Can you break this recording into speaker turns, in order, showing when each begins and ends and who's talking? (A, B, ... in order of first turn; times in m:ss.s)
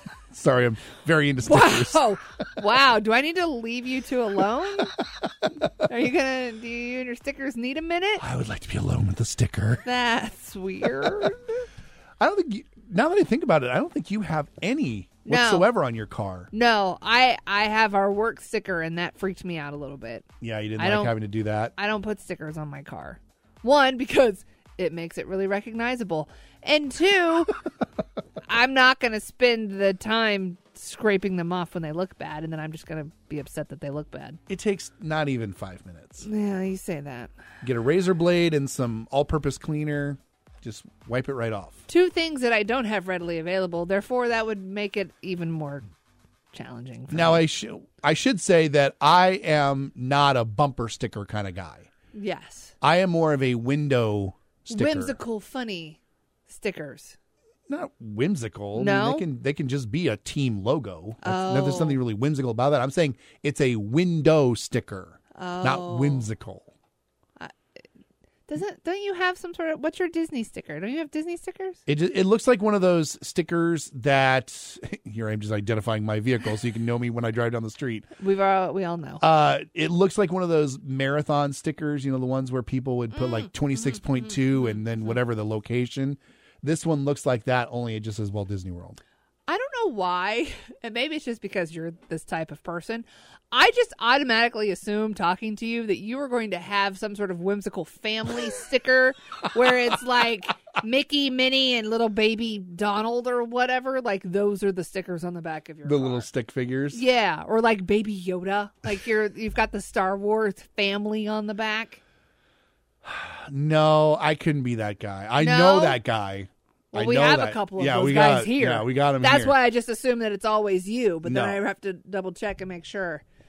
0:00.3-0:02.1 A
0:01.4-0:04.9 B
0:05.8-0:08.2 B
0:08.2-0:09.8 A
0:09.8-0:11.6 B
0:12.2-0:16.5 A
0:15.2-0:15.7 B
0:16.5-0:21.1 B
0:20.4-0:21.7 A
0:21.8-0:27.6 B
0:28.4-0:34.4 B
0:34.5-0:36.3 A
0:36.2-0:37.3 B
0:37.6-0:41.8 A
0:41.9-0:45.9 B
0:46.5-0:47.4 B
0:47.1-0:51.9 A
0:52.1-0:52.7 B
0:52.8-0:55.2 A
0:54.7-0:57.2 B
0:57.7-1:06.7 A
0:58.7-0:59.2 B
1:01.2-1:02.0 B
1:05.3-1:06.2 B
1:08.5-1:11.8 B
1:11.8-1:18.1 A
1:18.2-1:19.2 B
1:19.2-1:29.0 A
1:23.2-1:25.2 B
1:29.5-1:46.2 B
1:45.8-1:47.0 A
1:46.9-1:52.0 B
1:53.0-1:59.5 A
1:55.4-1:56.0 B
1:56.9-2:03.2 B
2:01.2-2:01.6 A